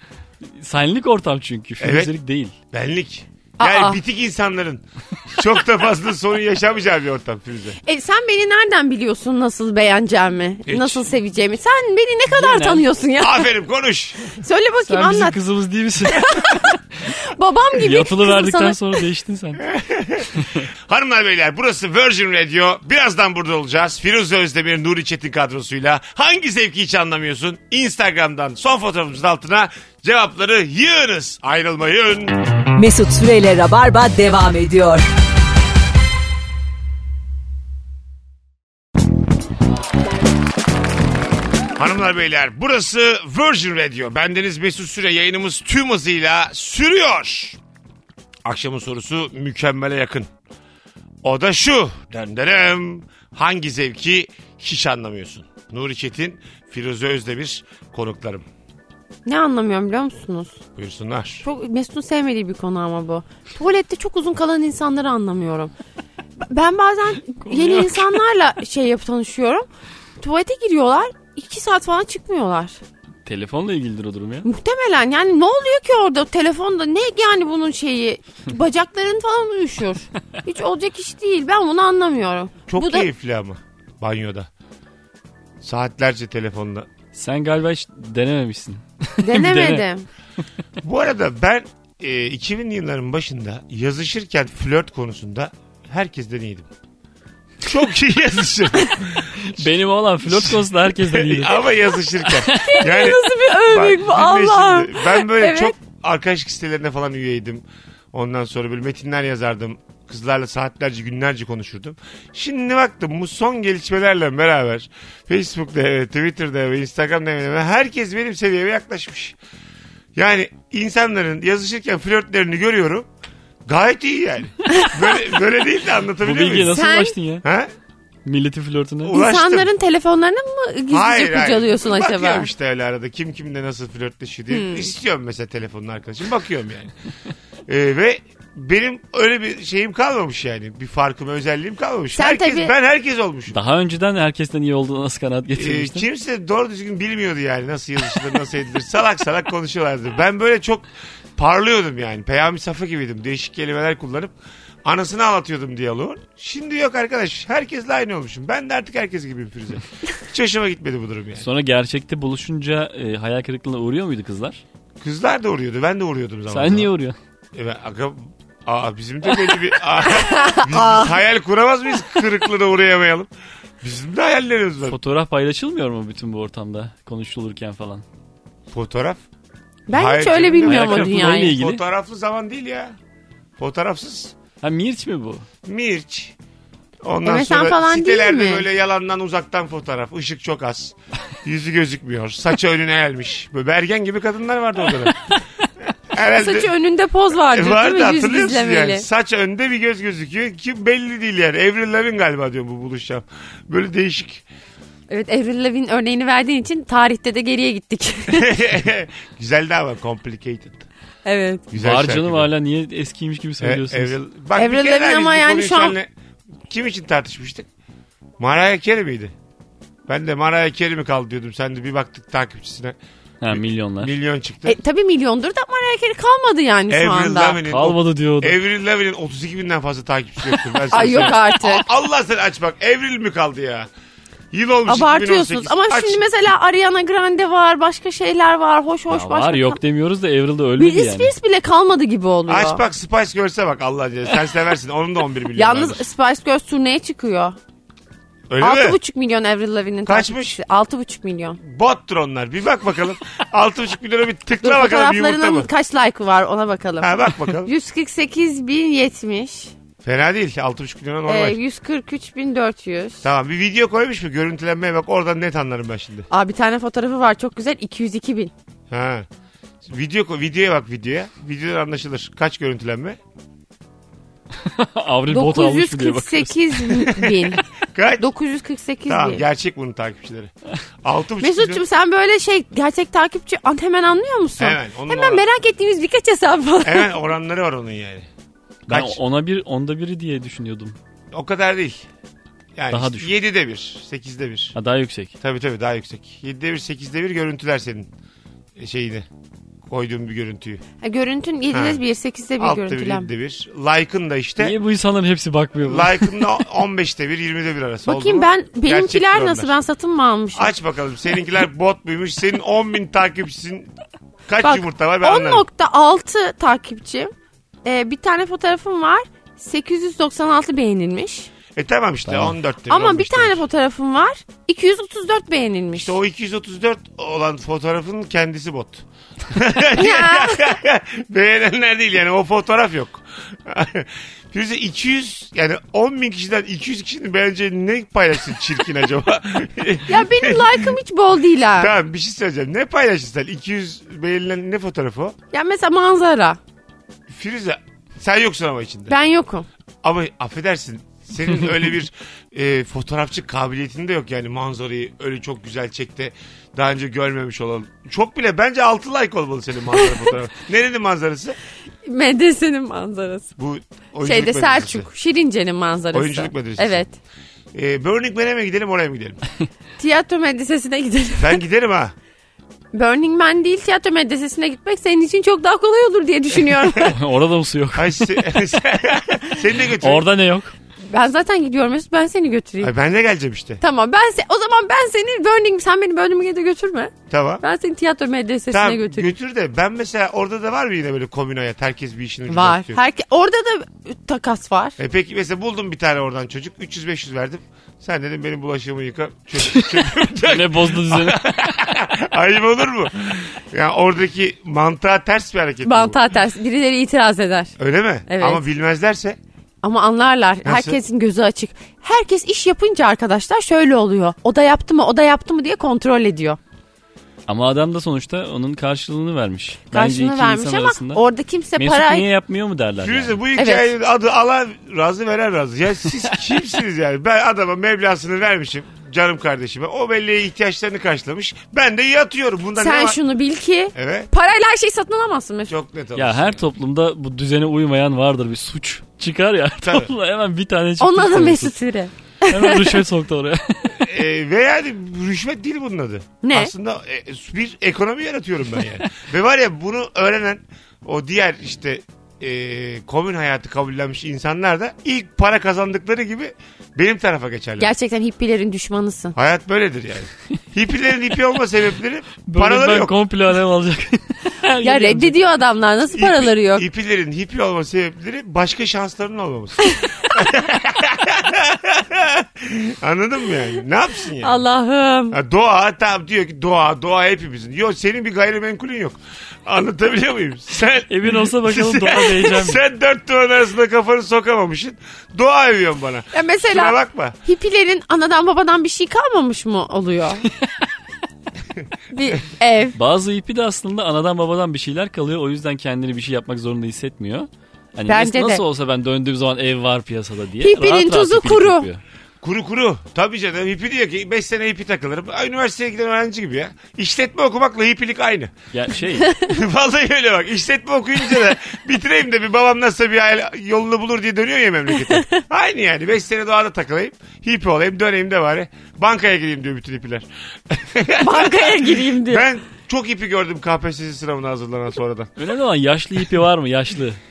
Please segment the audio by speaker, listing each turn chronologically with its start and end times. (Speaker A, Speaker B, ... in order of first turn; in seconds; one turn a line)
Speaker A: 0.6-2.5
Speaker B: 1.8-2.1
Speaker B: 2.7-7.8
Speaker C: 3.6-4.0
Speaker C: 7.8-13.5
Speaker B: 10.7-11.0
Speaker A: 12.3-12.9
Speaker B: 13.2-14.3
Speaker C: 14.4-15.4
Speaker A: 14.9-16.7
Speaker C: 16.1-19.0
Speaker A: 17.8-19.7
Speaker B: 19.6-20.3
Speaker A: 20.4-20.7
Speaker B: 20.9-32.4
Speaker D: 32.8-35.0
Speaker B: 41.8-47.6
Speaker B: 48.5-50.3
Speaker B: 51.2-58.5
Speaker C: 59.2-60.6
Speaker B: 60.8-61.4
Speaker C: 61.4-65.7
Speaker C: 66.4-69.7
Speaker A: 67.5-68.2
Speaker C: 70.2-72.8
Speaker A: 73.3-74.5
Speaker C: 74.4-83.1
Speaker B: 82.7-84.5
Speaker B: 85.6-86.9
Speaker A: 87.1-89.9
Speaker C: 89.2-90.1
Speaker B: 90.8-96.7
Speaker B: 97.6-99.7
Speaker A: 99.4-101.7
Speaker B: 100.3-119.4
Speaker A: 102.2-102.8
Speaker C: 102.5-105.8
Speaker B: 120.2-123.1
Speaker B: 123.7-126.8
Speaker C: 124.7-125.0
Speaker A: 126.2-127.5
Speaker C: 126.7-127.2
Speaker B: 127.4-127.7
Speaker A: 128.2-129.2
Speaker B: 129.0-129.7
Speaker C: 129.1-132.5
Speaker B: 130.9-136.9
Speaker C: 134.5-134.9
Speaker B: 137.7-143.6
Speaker C: 142.2-142.7
Speaker A: 143.5-146.0
Speaker B: 145.6-161.5
Speaker A: 161.4-164.6
Speaker B: 165.0-166.9
Speaker A: 166.5-167.2
Speaker B: 167.5-173.3
Speaker C: 170.1-171.1
Speaker B: 173.8-175.0
Speaker A: 174.8-178.0
Speaker B: 178.7-179.2
Speaker C: 179.9-181.6
Speaker B: 179.9-183.0
Speaker A: 180.6-181.8
Speaker B: 183.6-184.3
Speaker A: 184.6-185.5
Speaker B: 185.6-186.3
Speaker B: 187.0-195.2
Speaker C: 187.2-188.7
Speaker B: 196.1-196.7
Speaker C: 196.3-199.1
Speaker B: 197.5-204.4
Speaker C: 205.1-208.6
Speaker B: 208.3-210.9
Speaker C: 211.2-211.7
Speaker B: 211.7-212.5
Speaker A: 211.8-214.2
Speaker B: 213.6-216.1
Speaker C: 214.6-216.0
Speaker B: 216.7-217.7
Speaker B: 218.4-219.3
Speaker B: 220.1-223.0
Speaker A: 223.4-224.1
Speaker B: 223.5-224.8
Speaker C: 224.7-227.6
Speaker B: 226.9-233.9
Speaker A: 227.7-228.6
Speaker C: 230.9-231.9
Speaker A: 231.0-231.3
Speaker B: 234.5-236.2
Speaker C: 234.9-239.8
Speaker A: 239.1-241.3
Speaker C: 240.8-242.8
Speaker B: 242.5-246.0
Speaker C: 245.5-247.6
Speaker B: 248.5-249.0
Speaker C: 248.6-251.6
Speaker B: 250.1-250.6
Speaker B: 251.6-255.7
Speaker C: 254.6-259.7
Speaker B: 257.0-257.7
Speaker B: 260.0-261.6
Speaker C: 261.3-263.2
Speaker B: 263.2-266.3
Speaker C: 266.3-268.5
Speaker B: 268.9-269.3
Speaker B: 269.8-273.2
Speaker A: 274.6-277.2
Speaker C: 275.3-277.6
Speaker B: 277.2-278.3
Speaker C: 278.2-279.4
Speaker B: 279.1-280.5
Speaker B: 281.0-281.8
Speaker C: 281.4-287.1
Speaker B: 284.6-285.4
Speaker B: 286.8-288.3
Speaker B: 288.9-289.2
Speaker A: 288.9-291.0
Speaker B: 291.3-292.1
Speaker B: 292.8-294.8
Speaker A: 292.9-293.3
Speaker A: 294.8-295.3
Speaker B: 295.4-298.1
Speaker B: 298.8-299.3
Speaker B: 299.9-300.8
Speaker C: 301.0-303.3
Speaker B: 301.7-302.0
Speaker B: 302.6-304.8
Speaker A: 304.6-306.4
Speaker B: 305.8-309.8
Speaker C: 308.1-310.7
Speaker B: 310.6-313.9
Speaker B: 314.5-315.7
Speaker C: 314.6-317.3
Speaker C: 317.9-321.5
Speaker B: 321.8-323.6
Speaker A: 322.3-322.6
Speaker C: 322.9-326.1
Speaker B: 325.9-340.9
Speaker C: 330.0-330.8
Speaker C: 340.1-341.9
Speaker B: 341.8-345.4
Speaker C: 345.5-346.6
Speaker B: 347.3-349.1
Speaker C: 349.1-349.7
Speaker B: 350.0-361.6
Speaker C: 362.0-363.5
Speaker B: 363.6-365.1
Speaker C: 364.2-367.1
Speaker B: 366.1-367.1
Speaker B: 367.7-369.4
Speaker C: 370.0-371.6
Speaker B: 371.4-372.1
Speaker C: 372.9-377.2
Speaker A: 377.0-378.4
Speaker B: 377.9-380.3
Speaker A: 379.9-380.7
Speaker C: 381.1-382.9
Speaker B: 382.8-383.8
Speaker C: 383.8-389.3
Speaker B: 387.3-387.6
Speaker B: 388.7-393.0
Speaker C: 392.5-395.0
Speaker B: 395.0-406.2
Speaker A: 400.4-401.5
Speaker C: 405.8-407.7
Speaker B: 407.8-409.4
Speaker C: 408.3-408.6
Speaker C: 409.8-416.6
Speaker B: 410.6-411.0
Speaker A: 417.5-421.2
Speaker C: 419.9-422.3
Speaker A: 421.8-423.4
Speaker B: 423.0-433.2
Speaker C: 423.6-423.9
Speaker C: 432.8-435.7
Speaker B: 433.9-434.3
Speaker B: 435.7-436.6
Speaker A: 436.2-441.7
Speaker B: 439.8-440.1
Speaker C: 441.0-443.0
Speaker A: 442.5-444.0
Speaker B: 444.0-457.9
Speaker C: 446.4-446.7
Speaker C: 457.8-459.4
Speaker B: 459.4-463.1
Speaker A: 462.5-465.4
Speaker C: 464.8-466.9
Speaker B: 466.1-474.6
Speaker C: 474.4-475.4
Speaker B: 475.3-487.4
Speaker A: 481.1-482.8
Speaker C: 486.3-490.4
Speaker C: 492.1-493.0
Speaker A: 492.9-502.0
Speaker C: 498.1-498.6
Speaker C: 500.6-501.9
Speaker B: 502.4-508.5
Speaker A: 508.7-509.4
Speaker B: 509.4-525.3
Speaker C: 521.2-522.5
Speaker A: 525.4-527.2